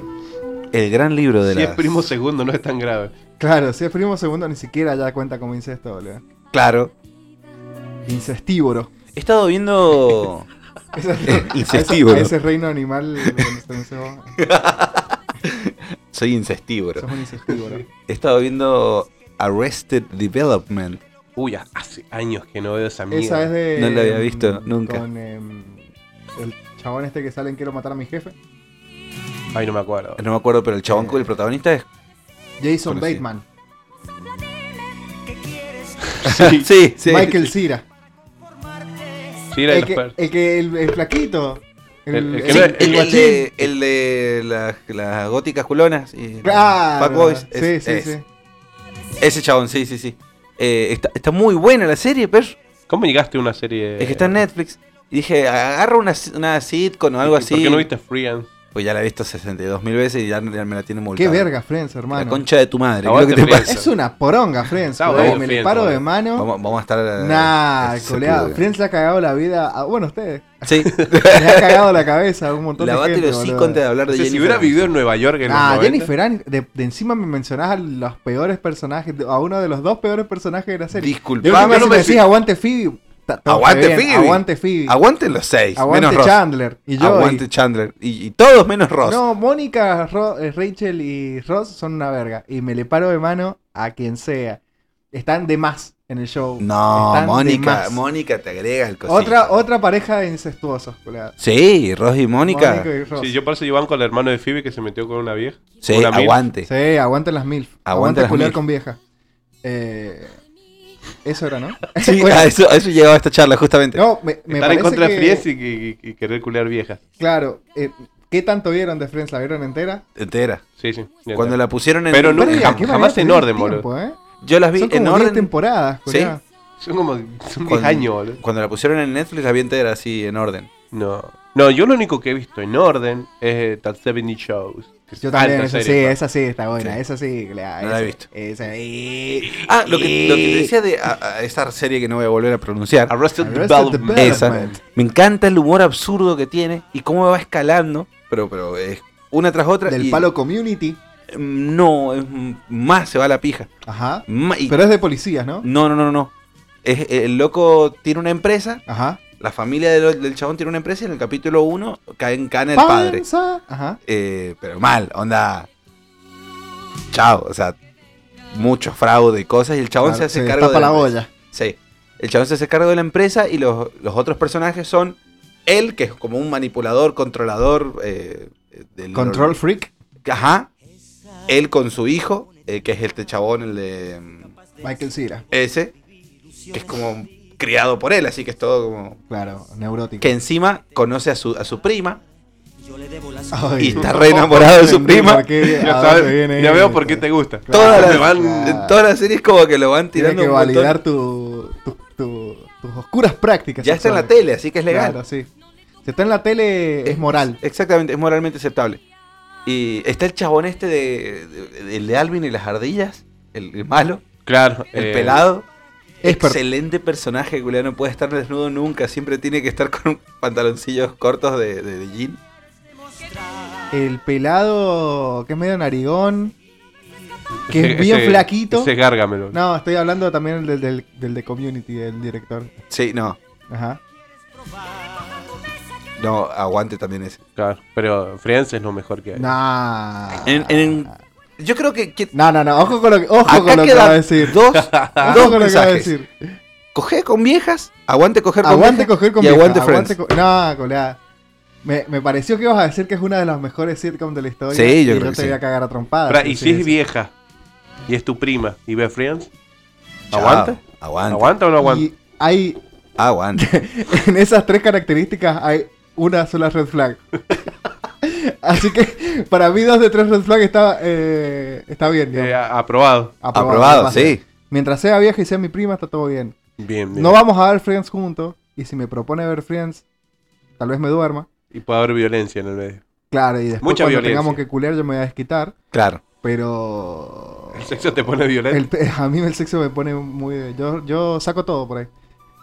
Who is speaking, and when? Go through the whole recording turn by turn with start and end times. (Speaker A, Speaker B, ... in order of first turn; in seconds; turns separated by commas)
Speaker A: 0.7-2.1, Speaker B: 1.5-3.1, Speaker C: 3.4-6.2, Speaker A: 6.5-6.9, Speaker C: 8.1-8.9, Speaker A: 9.1-10.5, Speaker C: 10.9-14.4, Speaker A: 11.3-12.3, Speaker A: 13.2-13.6, Speaker A: 14.4-17.1, Speaker C: 17.0-17.9, Speaker A: 18.1-21.0, Speaker B: 21.4-23.5, Speaker C: 23.1-25.8, Speaker A: 23.8-25.1, Speaker C: 26.4-28.4, Speaker B: 29.5-30.2, Speaker A: 30.2-31.9, Speaker C: 30.9-31.3, Speaker C: 32.6-33.5, Speaker A: 32.9-33.2, Speaker B: 36.0-36.7, Speaker A: 36.2-37.5, Speaker C: 37.0-37.9, Speaker B: 39.5-40.1, Speaker C: 39.7-43.5, Speaker B: 42.1-43.0, Speaker A: 42.5-48.1, Speaker C: 46.4-48.2, Speaker A: 49.2-52.6, Speaker B: 52.9-54.4, Speaker A: 54.0-57.9, Speaker B: 57.2-58.5, Speaker A: 58.7-61.5, Speaker C: 61.1-62.4, Speaker A: 62.1-63.7, Speaker B: 63.0-63.9, Speaker C: 63.7-66.5, Speaker B: 65.0-66.0, Speaker A: 65.1-65.4, Speaker A: 66.4-68.6, Speaker C: 67.2-73.8, Speaker A: 70.7-71.9, Speaker B: 70.8-71.2, Speaker A: 72.8-74.9, Speaker B: 74.1-76.1, Speaker C: 75.5-85.0, Speaker A: 80.9-82.1, Speaker B: 81.4-82.3, Speaker A: 83.5-86.4, Speaker C: 85.8-87.4, Speaker A: 87.0-89.2, Speaker C: 89.0-94.6, Speaker C: 95.1-98.0, Speaker A: 96.6-99.6, Speaker C: 99.1-101.4, Speaker A: 101.4-102.9, Speaker C: 102.4-103.3, Speaker B: 103.2-106.4, Speaker A: 105.8-106.7, Speaker C: 106.7-109.0, Speaker A: 107.9-108.6, Speaker C: 109.6-110.4, Speaker C: 111.2-112.5, Speaker A: 112.0-114.0, Speaker C: 114.0-115.5, Speaker B: 114.5-117.0, Speaker C: 117.2-120.0, Speaker A: 120.2-120.6, Speaker B: 120.8-121.6, Speaker A: 121.3-123.0, Speaker B: 122.1-123.8, Speaker C: 122.4-124.2, Speaker A: 124.4-125.5, Speaker C: 124.8-126.4, Speaker A: 126.1-126.3, Speaker B: 126.8-128.4, Speaker A: 127.7-130.7, Speaker B: 130.9-136.2, Speaker C: 135.2-140.7, Speaker A: 137.8-138.2, Speaker A: 139.4-143.2, Speaker B: 143.1-144.8, Speaker C: 143.4-144.8, Speaker A: 144.2-150.3, Speaker C: 149.9-151.0, Speaker A: 151.3-153.7, Speaker C: 153.9-155.7, Speaker A: 154.3-154.8, Speaker A: 155.6-156.3, Speaker A: 156.8-158.8, Speaker C: 158.9-159.2, Speaker A: 159.4-163.2, Speaker C: 162.8-164.0, Speaker A: 164.1-165.7, Speaker A: 167.1-167.8, Speaker A: 168.5-179.6, Speaker C: 170.0-171.3, Speaker C: 179.1-179.9, Speaker A: 180.2-180.7, Speaker A: 181.5-184.6, Speaker C: 184.8-185.5, Speaker A: 185.5-185.9, Speaker A: 186.7-189.2, Speaker C: 189.3-190.3, Speaker A: 190.2-192.2, Speaker C: 193.5-199.0, Speaker A: 193.8-195.5, Speaker B: 195.6-198.7, Speaker A: 197.7-201.0, Speaker C: 200.1-204.3, Speaker A: 203.8-205.2, Speaker C: 204.9-205.5, Speaker C: 206.1-207.6, Speaker A: 207.1-209.0, Speaker A: 209.7-214.2, Speaker B: 214.5-215.4, Speaker A: 214.9-215.7, Speaker C: 216.2-216.6, Speaker A: 216.2-222.4, Speaker C: 223.9-226.6, Speaker B: 227.7-229.6, Speaker C: 227.7-228.9, Speaker C: 229.5-232.8, Speaker A: 232.9-233.4, Speaker C: 233.7-234.0, Speaker A: 236.2-237.4, Speaker B: 237.6-239.5, Speaker C: 239.3-241.2, Speaker A: 240.4-242.3, Speaker C: 242.3-244.6, Speaker A: 243.4-246.1, Speaker B: 244.7-245.5, Speaker C: 245.2-246.6, Speaker A: 246.9-250.2, Speaker C: 248.6-251.2, Speaker C: 251.8-256.9, Speaker A: 254.7-255.6, Speaker B: 256.3-257.3, Speaker B: 258.1-259.5, Speaker A: 260.3-261.5, Speaker B: 260.3-262.1, Speaker C: 261.8-262.8, Speaker A: 263.2-263.6, Speaker C: 263.6-267.6, Speaker C: 268.2-272.6, Speaker B: 272.3-273.4, Speaker C: 273.4-276.6, Speaker A: 273.5-274.4, Speaker B: 276.8-277.4, Speaker C: 277.1-280.0, Speaker C: 280.8-281.5, Speaker B: 281.7-283.0, Speaker C: 283.3-285.8, Speaker B: 283.8-284.6, Speaker A: 285.9-286.2, Speaker C: 286.4-292.1, Speaker B: 287.7-288.8